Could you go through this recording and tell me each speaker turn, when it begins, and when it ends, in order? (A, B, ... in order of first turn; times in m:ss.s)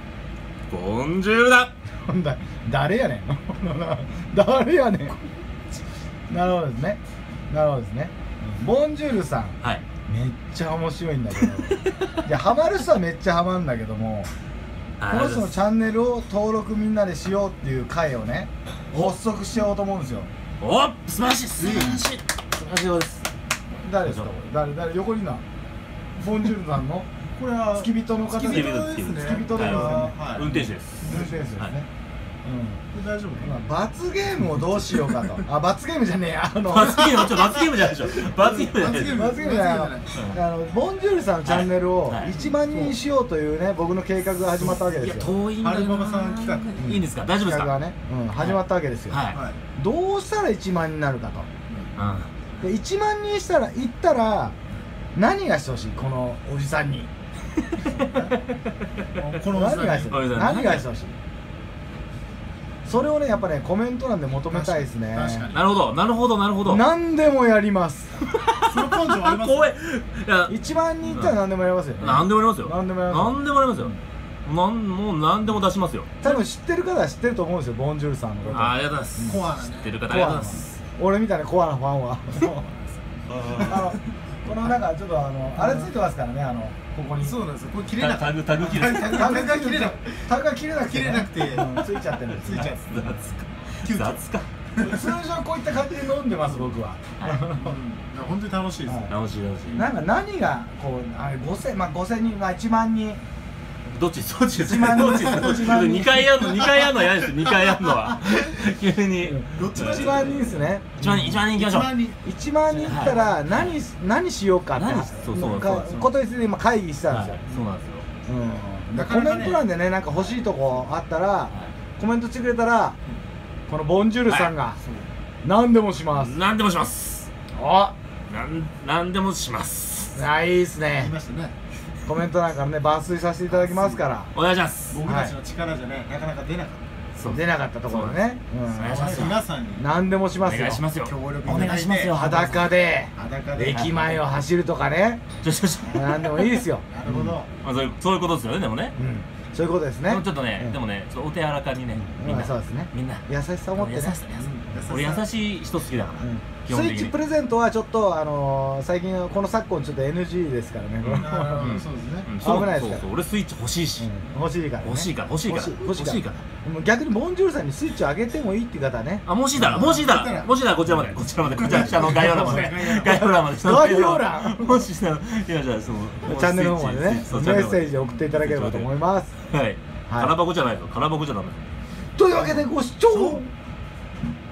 0:00.7-0:01.7 A
0:02.1-0:05.2 B
0:06.3-0:14.3 B
0:11.7-0:12.1 A
0:15.0-0:15.6 A
0:15.1-0:20.3 B
0:20.6-0:23.3 A
0:21.6-0:22.0 C
0:23.8-0:25.4 B
0:24.0-0:24.3 A
0:26.2-0:27.1 B
0:27.3-0:31.4 C
0:27.7-0:30.2 B
0:28.4-0:31.7 A
0:31.0-0:31.9 B
0:32.4-0:32.8 B
0:32.9-0:33.6 C
0:33.4-0:37.3 B
0:36.7-0:39.2 A
0:37.1-0:40.1 C
0:39.0-0:45.3 B
0:40.1-0:40.4 A
0:41.4-0:42.3 A
0:42.2-0:43.0 C
0:44.8-0:47.7 A
0:45.6-0:46.8 C
0:46.8-0:49.2 B
0:49.1-0:49.4 A
0:49.3-0:49.6 C
0:49.8-0:51.5 B
0:52.0-0:52.3 A
0:52.6-0:54.6 B
0:55.1-0:57.1 B
0:57.7-0:58.4 A
0:59.1-1:00.2 C
0:59.4-1:01.1 B
1:00.0-1:00.8 A
1:02.8-1:05.5 B
1:04.5-1:05.6 C
1:05.5-1:06.8 A
1:06.6-1:08.1 B
1:08.3-1:10.5 A
1:08.6-1:09.7 C
1:10.5-1:13.9 B
1:11.1-1:11.3 A
1:12.0-1:16.1 A
1:16.2-1:19.4 B
1:18.5-1:20.8 A
1:19.2-1:20.0 C
1:20.0-1:22.5 B
1:22.4-1:23.8 C
1:23.3-1:23.7 A
1:23.5-1:27.4 B
1:27.2-1:33.1 C
1:28.0-1:29.4 A
1:29.0-1:32.7 B
1:32.5-1:34.5 A
1:33.8-1:34.2 C
1:34.7-1:35.0 C
1:34.8-1:37.8 B
1:37.2-1:37.5 A
1:37.5-1:39.1 C
1:38.8-1:39.1 B
1:39.1-1:39.9 A
1:39.7-1:43.2 B
1:43.8-1:50.4 A
1:44.6-1:46.4 B
1:49.2-1:51.5 B
1:49.5-1:50.6 C
1:50.9-1:52.0 A
1:51.5-1:52.2 C
1:52.2-1:57.4 B
1:52.8-1:53.7 A
1:54.7-1:56.0 A
1:55.4-1:56.1 C
1:57.1-1:58.0 A
1:58.3-2:03.0 B
1:58.9-1:59.7 C
2:01.5-2:01.7 A
2:03.7-2:04.8 B
2:04.2-2:04.5 A
2:05.4-2:06.4 B
2:06.2-2:07.3 A
2:07.5-2:07.9 B
2:08.3-2:10.2 A
2:10.1-2:11.1 B
2:10.9-2:11.5 C
2:12.0-2:14.3 B
2:13.5-2:14.1 C
2:14.3-2:15.0 A
2:14.9-2:16.8 C
2:15.0-2:15.3 B
2:17.1-2:19.4 A
2:17.2-2:20.8 B
2:18.9-2:19.8 C
2:20.4-2:22.7 A
2:21.0-2:22.2 C
2:21.4-2:25.2 B
2:23.1-2:24.1 C
2:25.4-2:26.4 A
2:25.9-2:27.4 B
2:26.9-2:27.5 C
2:27.6-2:28.9 A
2:29.0-2:30.8 B
2:30.1-2:37.1 A
2:31.9-2:34.2 B
2:34.3-2:35.3 C
2:36.2-2:41.8 B
2:41.0-2:44.1 A
2:41.1-2:42.3 C
2:42.4-2:43.1 B
2:44.0-2:49.2 B
2:44.8-2:46.4 A
2:49.2-2:58.9 A
2:49.5-2:50.5 C
2:51.5-2:53.2 C
2:51.9-2:54.9 B
2:56.2-2:59.3 B
2:59.4-3:01.7 A
3:00.1-3:00.3 B
3:02.2-3:03.5 B
3:03.1-3:03.4 C